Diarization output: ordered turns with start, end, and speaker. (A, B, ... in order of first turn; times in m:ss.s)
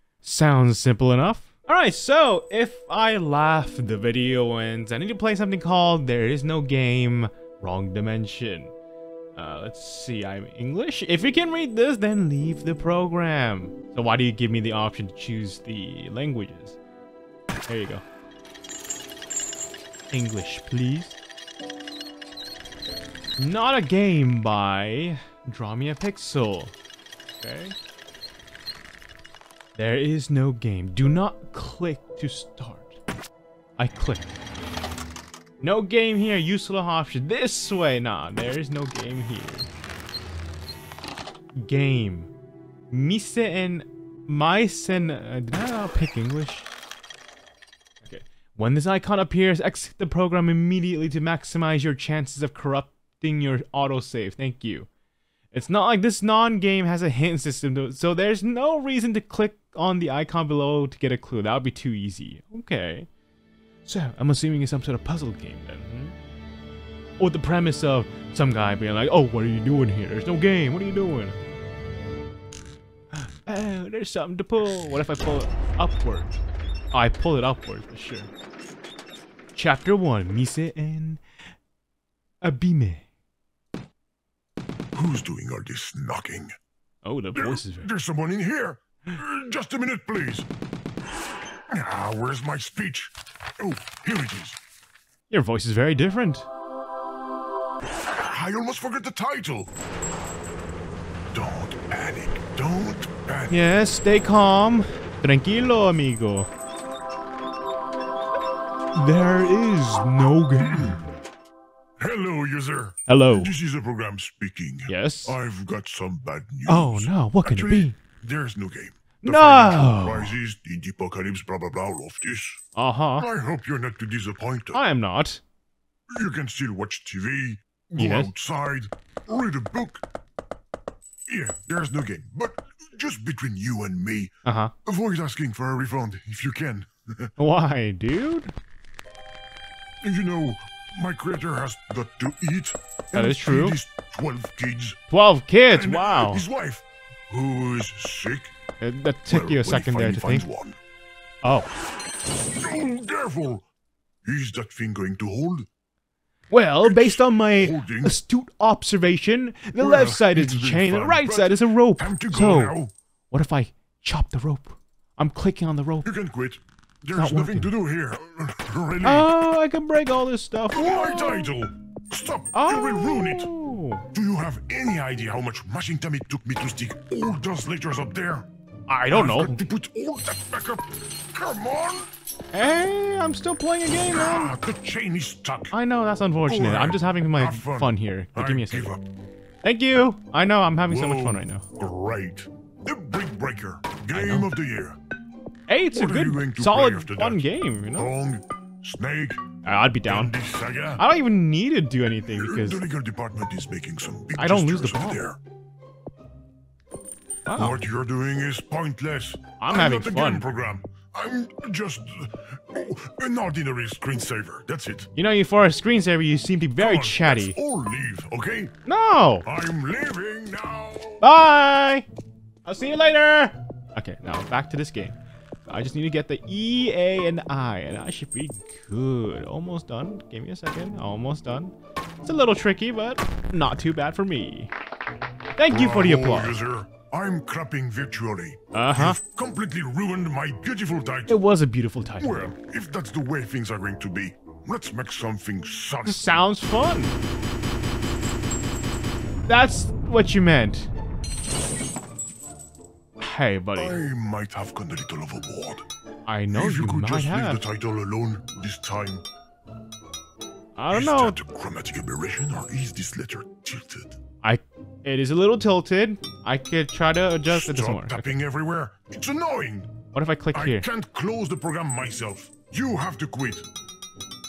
0:00.2-0:08.7 A
0:09.4-0:16.8 A
0:17.7-0:18.0 A
0:20.1-0:21.2 A
0:23.4-0:26.7 A
0:27.4-0:27.8 A
0:29.8-0:33.0 A
0:33.8-0:34.3 A
0:35.6-0:39.7 A
0:41.6-0:42.3 A
0:42.9-0:46.7 A
0:48.0-0:54.9 A
0:55.5-1:03.1 A
1:03.8-1:06.1 A
1:07.2-1:11.4 A
1:13.1-1:16.4 A
1:16.9-1:18.3 A
1:19.6-1:21.2 A
1:22.4-1:23.0 A
1:24.9-1:26.5 B
1:27.0-1:27.9 A
1:27.3-1:30.5 B
1:31.7-1:34.6 B
1:35.3-1:36.5 A
1:38.1-1:39.7 B
1:41.3-1:43.6 B
1:43.5-1:46.5 A
1:48.9-1:51.0 A
1:50.7-1:51.0 B
1:52.0-2:02.6 B
1:53.1-1:53.5 A
1:54.9-1:55.4 A
1:56.6-1:58.0 A
1:59.2-2:00.3 A
2:02.7-2:03.3 A
2:03.2-2:04.8 B
2:04.7-2:05.4 A
2:06.1-2:10.0 B
2:07.9-2:08.3 A
2:11.3-2:14.3 B
2:14.4-2:14.7 A
2:14.8-2:17.3 B
2:17.4-2:18.5 A
2:20.0-2:25.0 B
2:23.1-2:23.8 A
2:25.1-2:26.4 A
2:25.7-2:28.5 B
2:28.8-2:30.4 A
2:29.3-2:30.8 B
2:32.5-2:33.6 B
2:34.2-2:35.7 B
2:36.5-2:42.8 A
2:36.8-2:38.2 B
2:39.8-2:42.9 B
2:43.3-2:46.1 A
2:46.0-2:49.3 B
2:47.1-2:47.7 A
2:49.0-2:51.5 A
2:50.7-2:53.5 B
2:52.5-2:54.0 A
2:54.1-2:58.5 B
2:58.9-2:59.6 A
2:59.1-3:02.1 B
3:02.5-3:04.5 A
3:04.1-3:05.8 B
3:05.7-3:09.0 A
3:06.4-3:09.0 B
3:09.6-3:11.6 A
3:10.9-3:15.0 B
3:14.1-3:14.5 A
3:15.7-3:18.1 A
3:15.9-3:19.4 B
3:19.6-3:20.3 A
3:20.0-3:21.0 B
3:21.0-3:22.8 A
3:22.2-3:25.4 B
3:24.4-3:25.3 A
3:27.4-3:27.8 A
3:27.5-3:35.1 B
3:29.6-3:30.4 A
3:35.1-3:37.6 A
3:36.8-3:38.7 B
3:38.8-3:39.4 A
3:39.4-3:41.2 B
3:41.2-3:42.1 A
3:42.6-3:54.7 A
3:55.6-3:56.6 A
3:55.7-4:01.4 B
3:58.7-3:59.2 A
4:01.3-4:02.5 A
4:02.2-4:06.2 B
4:06.0-4:07.2 A
4:09.5-4:10.9 A
4:13.2-4:14.0 A
4:13.8-4:15.8 B
4:16.3-4:17.6 A
4:16.5-4:19.2 B
4:20.8-4:21.4 A
4:20.9-4:24.2 B
4:24.4-4:28.2 A
4:27.4-4:29.9 B
4:30.1-4:30.8 A
4:30.5-4:33.6 B